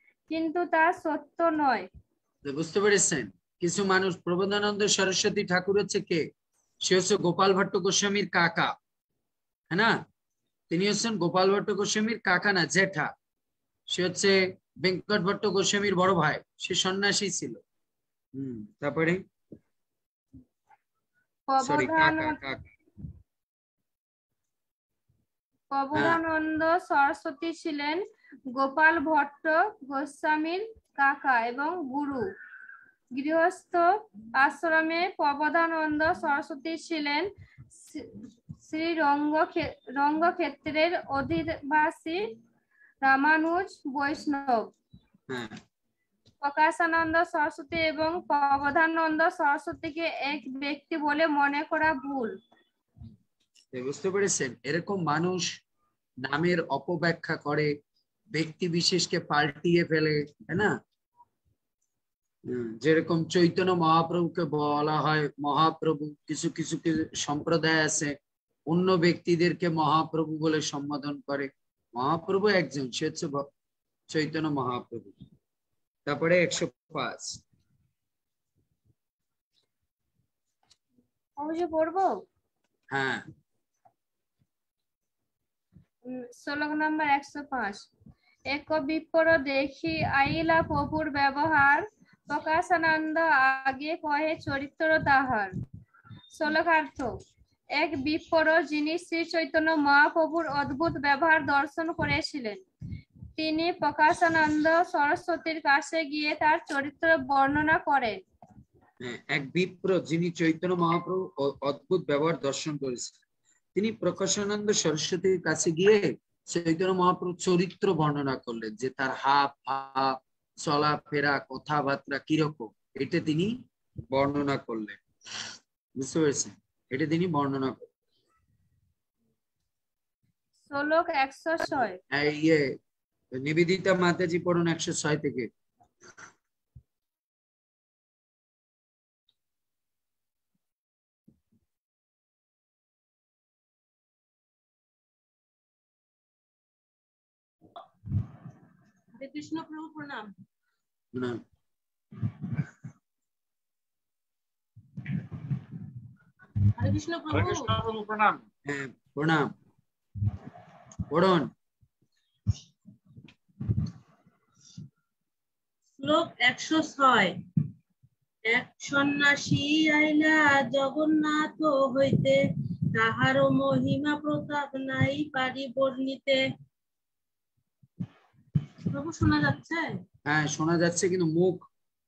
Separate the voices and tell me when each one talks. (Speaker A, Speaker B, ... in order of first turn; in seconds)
Speaker A: 0.3-1.9, 21.5-22.4, 25.7-32.3, 33.1-37.3, 37.9-42.2, 43.0-44.7, 46.4-52.4, 81.4-82.2, 86.1-87.9, 88.5-95.5, 96.3-97.1, 97.8-102.6, 103.4-108.2, 130.7-132.0
Speaker B: 2.4-6.3, 6.8-8.8, 9.7-10.0, 10.7-13.1, 13.9-17.6, 18.4-19.2, 21.6-22.7, 25.9-26.2, 45.3-45.6, 53.7-55.6, 56.2-57.7, 58.3-60.8, 62.5-68.2, 68.7-73.5, 74.1-75.2, 76.1-77.4, 82.9-83.3, 109.0-113.2, 113.8-123.6, 124.1-125.0, 126.0-127.9, 131.6-132.7, 133.3-135.5, 151.1-151.4, 157.3-159.5, 161.1-161.5, 180.3-181.7
Speaker C: 149.2-150.3, 156.8-157.8, 166.0-167.4, 168.5-172.4, 172.9-176.4, 178.9-179.9